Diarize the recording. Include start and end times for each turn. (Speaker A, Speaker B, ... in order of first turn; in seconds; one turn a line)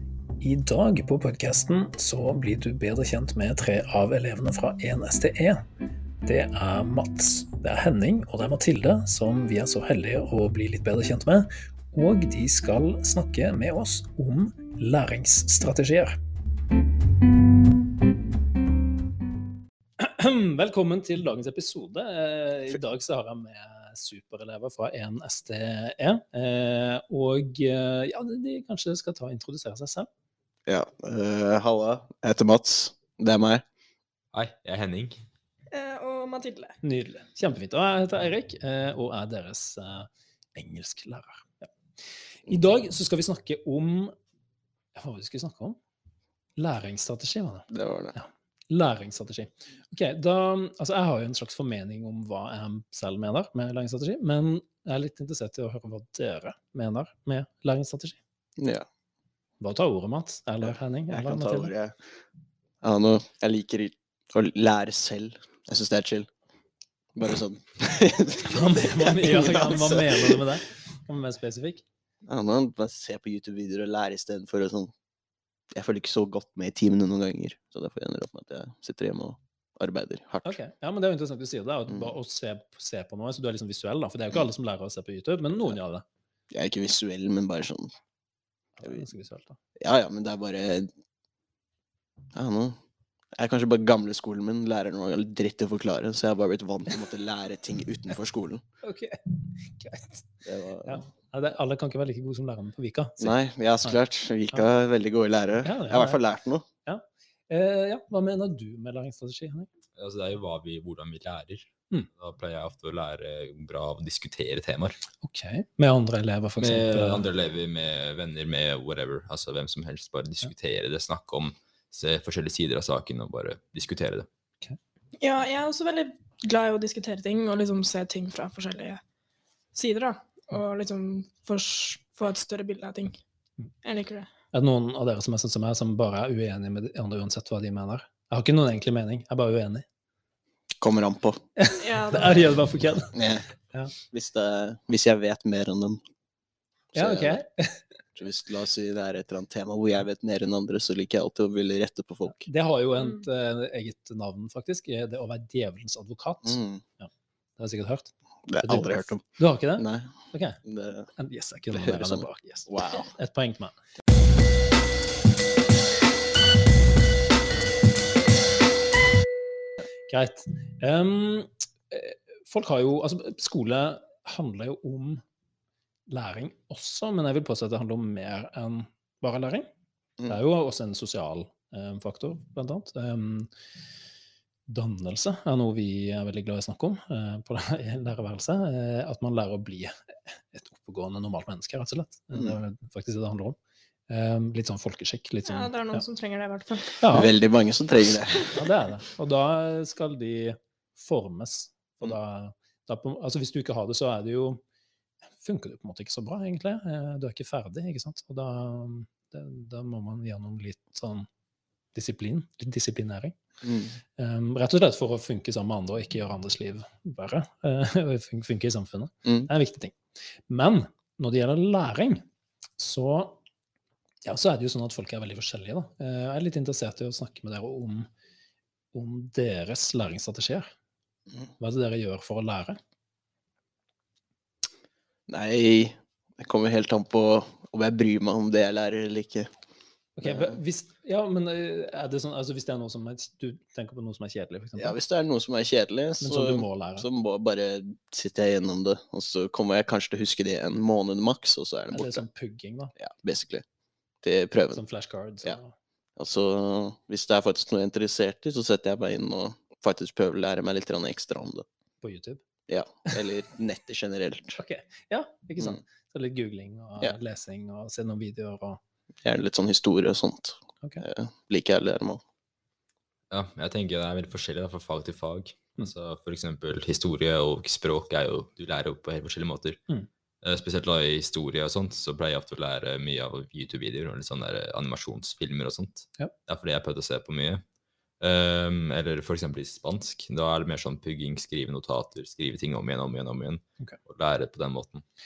Speaker A: 0.4-5.6
Speaker A: 6.2-16.2
Speaker A: 20.0-30.1
Speaker B: 30.7-33.6
Speaker C: 34.3-35.2
Speaker D: 35.7-36.8
Speaker A: 36.8-41.7
Speaker A: 42.4-44.1
Speaker A: 44.9-45.8
Speaker A: 46.6-58.2
Speaker B: 47.7-48.1
Speaker B: 58.6-58.9
Speaker A: 59.6-61.7
Speaker B: 60.6-62.0
Speaker B: 62.8-66.3
Speaker B: 67.1-70.5
Speaker A: 68.4-71.8
Speaker B: 72.2-74.9
Speaker B: 75.7-80.6
Speaker A: 80.4-86.0
Speaker B: 81.9-82.1
Speaker B: 86.5-87.9
Speaker A: 88.8-89.6
Speaker B: 89.8-90.9
Speaker B: 92.3-92.8
Speaker B: 93.3-98.6
Speaker A: 98.8-100.3
Speaker B: 100.4-101.0
Speaker A: 100.8-104.0
Speaker B: 103.2-106.7
Speaker A: 105.6-106.2
Speaker A: 106.8-109.7
Speaker C: 110.0-115.0
Speaker A: 115.2-117.3
Speaker C: 116.6-124.3
Speaker D: 125.2-129.0
Speaker D: 129.7-133.2
Speaker D: 133.8-134.3
Speaker A: 134.5-139.8
Speaker B: 140.8-141.4
Speaker A: 141.6-143.1
Speaker D: 141.8-142.5
Speaker B: 143.1-143.5
Speaker B: 144.1-146.0
Speaker B: 146.9-147.4
Speaker A: 146.9-147.8
Speaker B: 148.2-152.5
Speaker A: 152.3-160.6
Speaker B: 156.4-156.8
Speaker B: 158.5-159.2
Speaker B: 159.8-161.1
Speaker A: 161.2-163.7
Speaker B: 161.7-163.1
Speaker A: 170.1-175.2
Speaker A: 176.1-179.7
Speaker A: 180.3-183.5
Speaker A: 184.7-193.6
Speaker A: 194.1-196.0
Speaker D: 195.5-197.2
Speaker A: 197.0-197.3
Speaker B: 197.1-198.5
Speaker A: 198.5-204.6
Speaker A: 205.4-211.3
Speaker A: 211.9-213.4
Speaker B: 213.6-214.0
Speaker A: 214.2-220.0
Speaker B: 219.2-219.5
Speaker A: 220.5-222.2
Speaker A: 222.8-223.4
Speaker A: 224.2-228.1
Speaker A: 228.9-230.7
Speaker A: 231.6-232.8
Speaker B: 235.3-239.5
Speaker A: 240.2-245.0
Speaker B: 240.2-240.6
Speaker B: 244.8-252.2
Speaker A: 246.2-247.1
Speaker A: 251.9-252.9
Speaker B: 253.0-253.6
Speaker B: 254.2-254.8
Speaker A: 254.7-255.7
Speaker B: 256.2-261.6
Speaker A: 262.0-262.4
Speaker B: 262.7-264.6
Speaker A: 264.6-268.8
Speaker B: 269.2-272.2
Speaker C: 273.3-279.8
Speaker C: 280.4-287.6
Speaker C: 288.2-295.0